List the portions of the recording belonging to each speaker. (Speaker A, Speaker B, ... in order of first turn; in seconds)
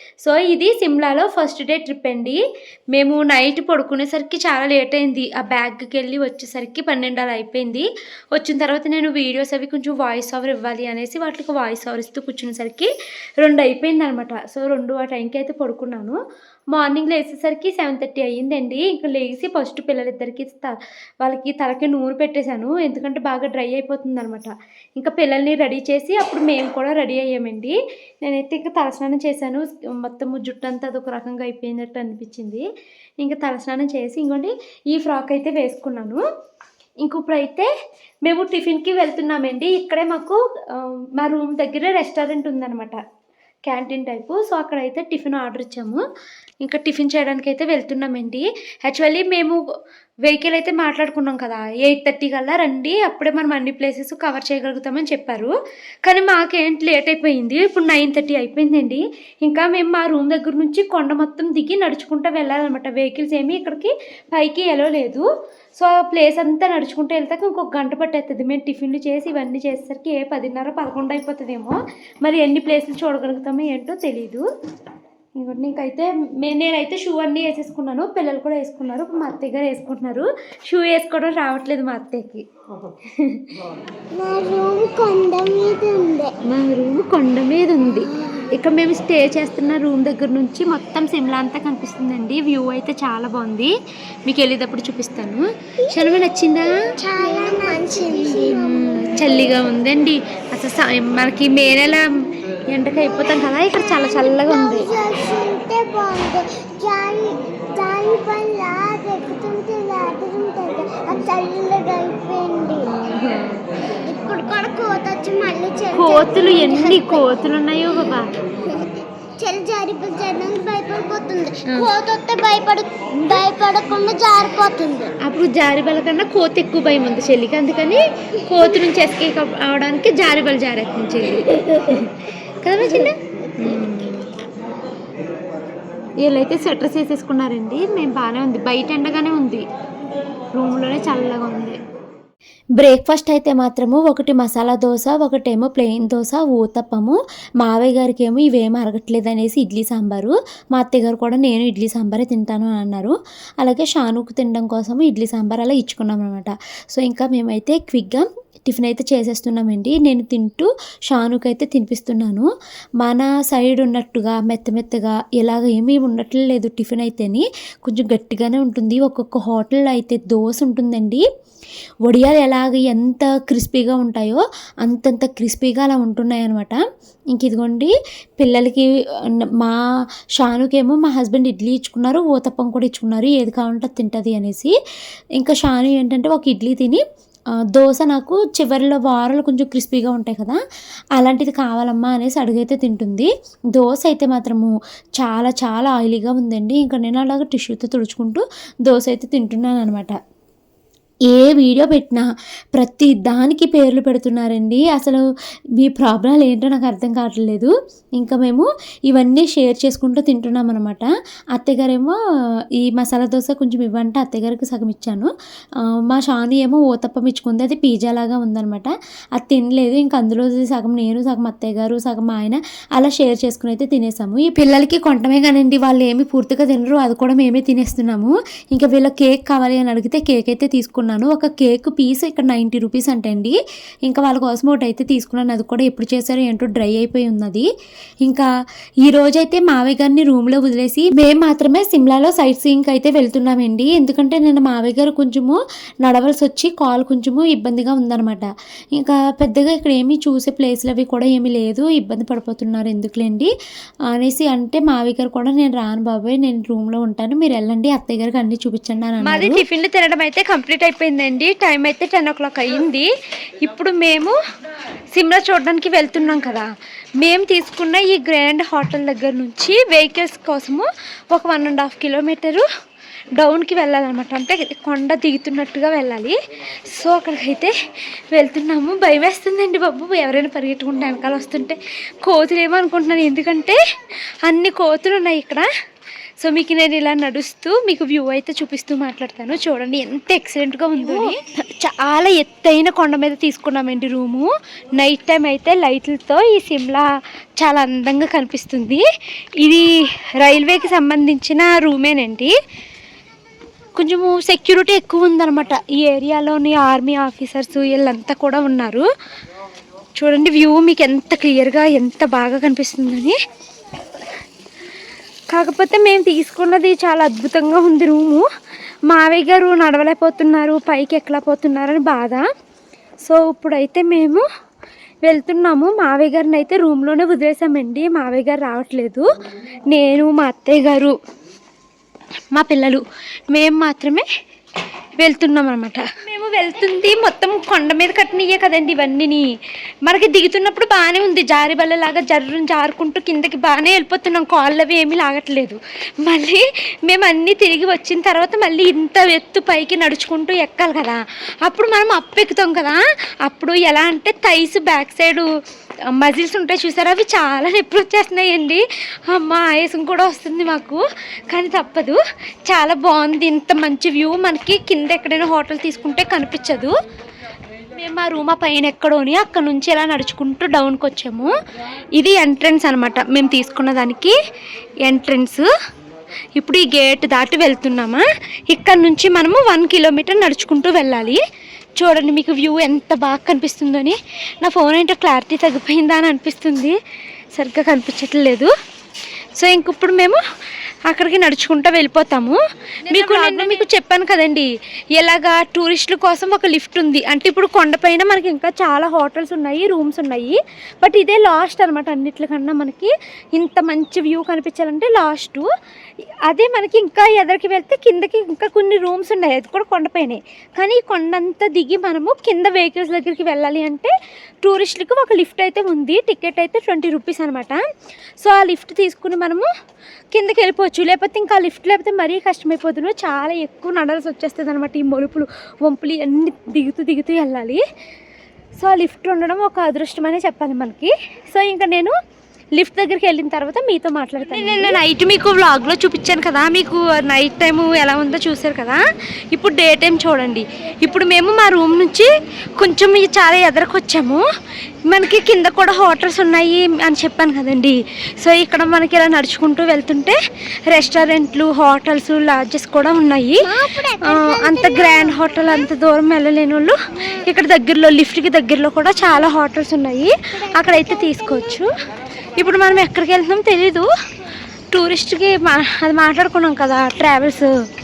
Speaker A: 0.2-2.4, 2.9-12.9, 13.4-16.2, 16.7-32.6, 33.2-36.2, 37.0-37.7, 38.2-43.0, 43.7-46.0, 46.6-49.6, 50.3-55.5, 56.0-74.4, 75.4-82.4, 86.5-93.7, 94.3-96.7, 98.1-102.0, 102.7-104.9, 113.0-113.6, 115.9-118.3, 125.2-132.1, 132.6-134.3, 136.2-139.7, 140.6-141.8, 142.8-162.5, 163.0-171.2, 172.1-176.8, 177.3-179.8, 180.4-184.7, 185.4-187.0, 187.7-190.6, 191.2-200.2, 201.3-205.2, 205.8-212.2, 212.8-215.3, 215.8-237.7, 239.1-253.5, 254.1-259.6, 291.0-291.3, 393.1-393.8, 433.9-435.0
Speaker B: 84.2-86.3, 88.0-88.5, 97.0-99.5, 103.5-112.9, 114.0-117.3, 118.6-125.1, 453.6-455.9, 457.2-457.5, 460.6-461.7
Speaker C: 259.2-263.1, 263.6-264.4, 265.1-266.7, 267.2-272.6, 273.4-276.4, 276.9-277.7, 278.4-281.8, 282.3-283.8, 284.5-285.7, 286.4-297.1, 297.6-299.0, 299.6-299.9, 300.4-302.5, 304.0-309.1, 310.2-313.4, 315.5-318.4, 319.1-322.4, 323.2-324.4, 325.3-329.2, 329.9-331.1, 332.6-334.3, 335.2-339.5, 340.1-355.5, 356.1-361.0, 361.5-366.9, 368.0-371.5, 372.2-374.4, 375.1-375.6, 376.6-381.4, 382.0-387.0, 387.6-388.7, 389.6-390.4, 391.1-405.7, 406.5-414.1, 414.6-417.8, 418.4-419.7, 420.3-427.8, 428.8-432.1, 432.8-433.8, 434.4-439.0, 439.5-444.4, 445.1-453.7, 454.2-461.9, 462.6-464.1, 464.9-467.7